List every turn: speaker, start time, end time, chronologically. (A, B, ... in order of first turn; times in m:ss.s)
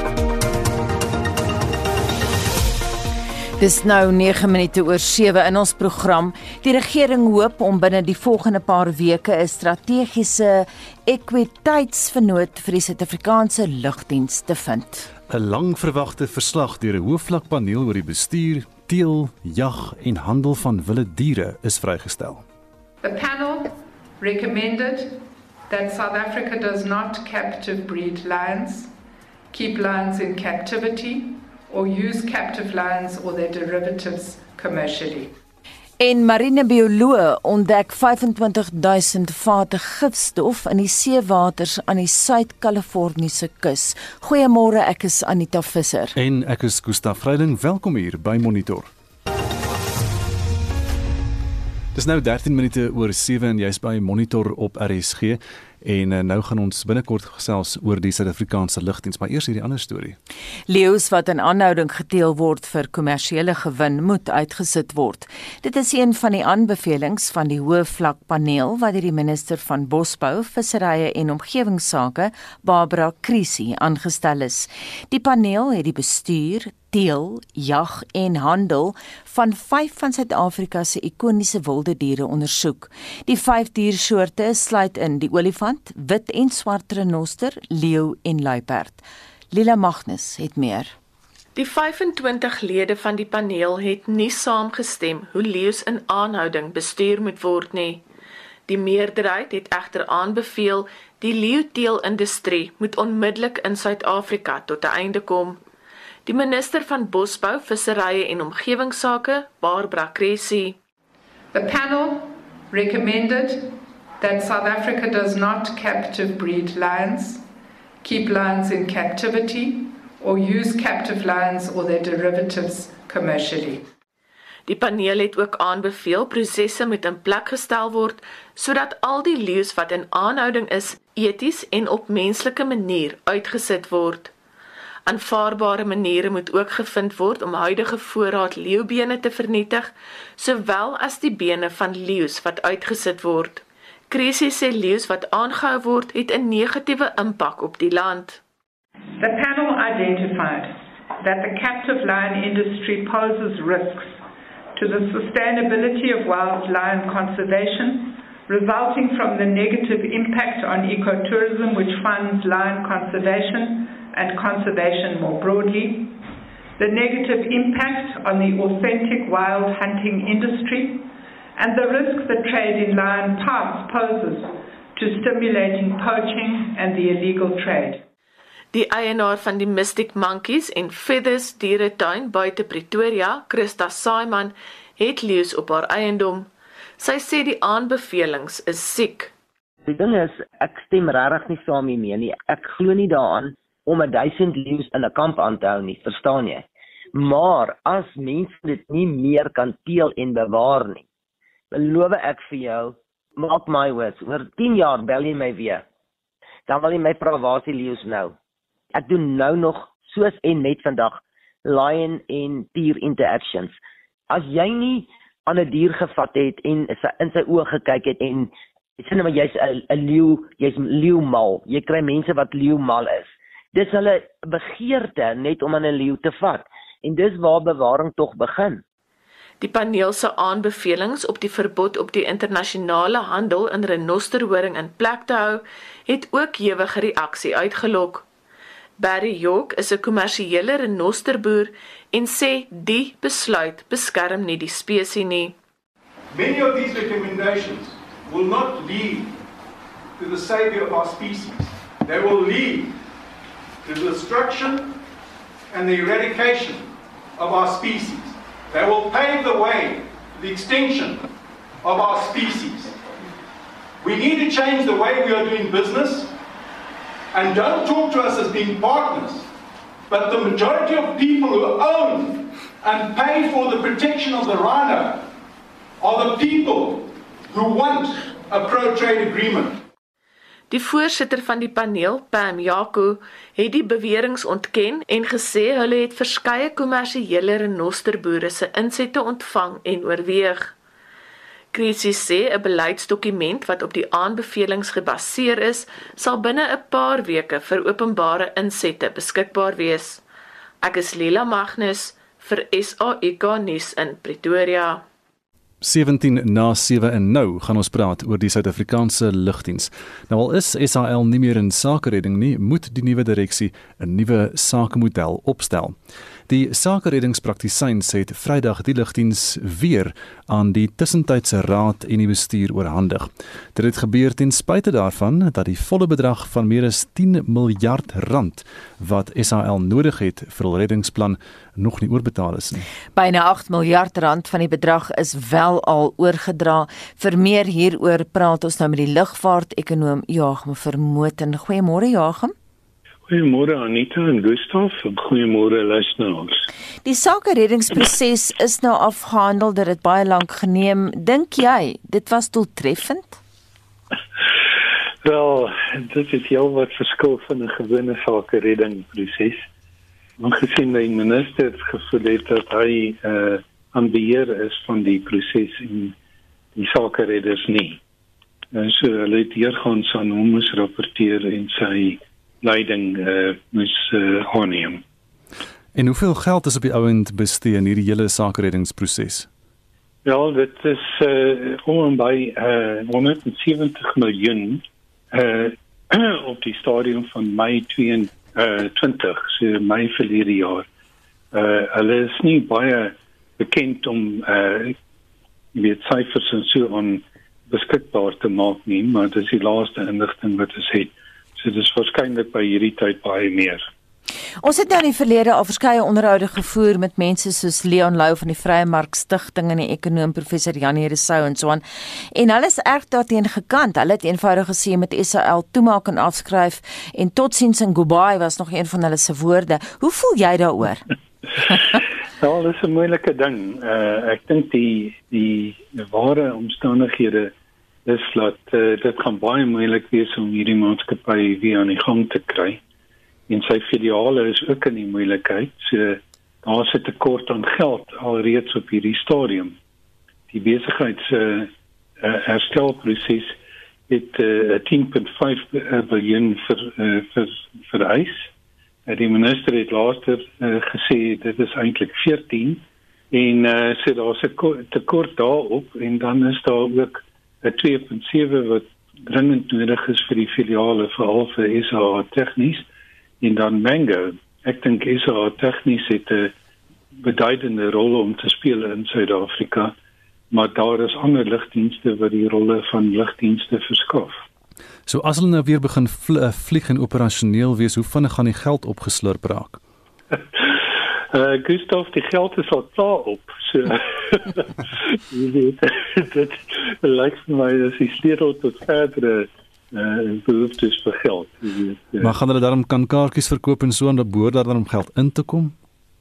0:03.6-0:15.1 A
0:15.3-0:22.4 B
0:23.0-0:28.9 C
0:29.5-0:35.3 C
0:36.0-0:46.2 A
0:46.2-0:48.9 B
0:51.9-1:00.2 B
1:00.7-1:31.0 A
1:31.6-1:38.0 D
1:38.7-1:45.6 D
1:46.3-1:50.8 D
1:51.5-1:57.4 C
1:58.0-2:03.8 C
2:04.7-2:14.3 D
2:15.1-2:28.4 D
2:29.2-2:34.2 C
2:34.8-2:46.2 C
2:46.8-2:58.0 C
2:58.7-3:09.3 D
3:09.9-3:21.0 E
3:21.7-3:25.8 E
3:26.7-3:28.4 E
3:28.9-3:33.7 E
3:34.3-3:48.8 E
3:49.6-3:58.2 D
3:59.0-4:05.6 D
4:06.3-4:09.4 F
4:10.2-4:13.0 F
4:13.8-4:15.0 F
4:15.7-4:21.3 F
4:21.8-4:23.0 F
4:24.0-4:26.3 F
4:27.3-4:29.5 F
4:30.1-4:35.3 F
4:36.0-4:39.8 F
4:40.7-4:50.7 D
4:51.7-5:00.2 D
5:00.8-5:05.0 D
5:05.8-5:16.0 B
5:16.5-5:32.9 B
5:33.2-5:42.5 A
5:43.3-5:46.7 G
5:47.0-5:53.4 A
5:55.2-5:59.7 G
6:00.4-6:06.2 G
6:06.8-6:08.0 G
6:08.7-6:15.0 G
6:16.0-6:19.5 B
6:20.2-6:30.9 G
6:31.5-6:35.0 G
6:35.7-6:43.9 G
6:44.6-7:01.1 A
7:02.4-7:07.5 G
7:08.1-7:12.8 G
7:13.5-7:19.8 G
7:20.5-7:23.6 G
7:24.1-7:28.5 G
7:29.1-7:42.9 G
7:43.4-7:46.5 G
7:47.2-7:50.0 G
7:50.5-7:54.4 G
7:55.1-7:59.8 B
8:00.3-8:12.3 G
8:12.2-8:15.7 B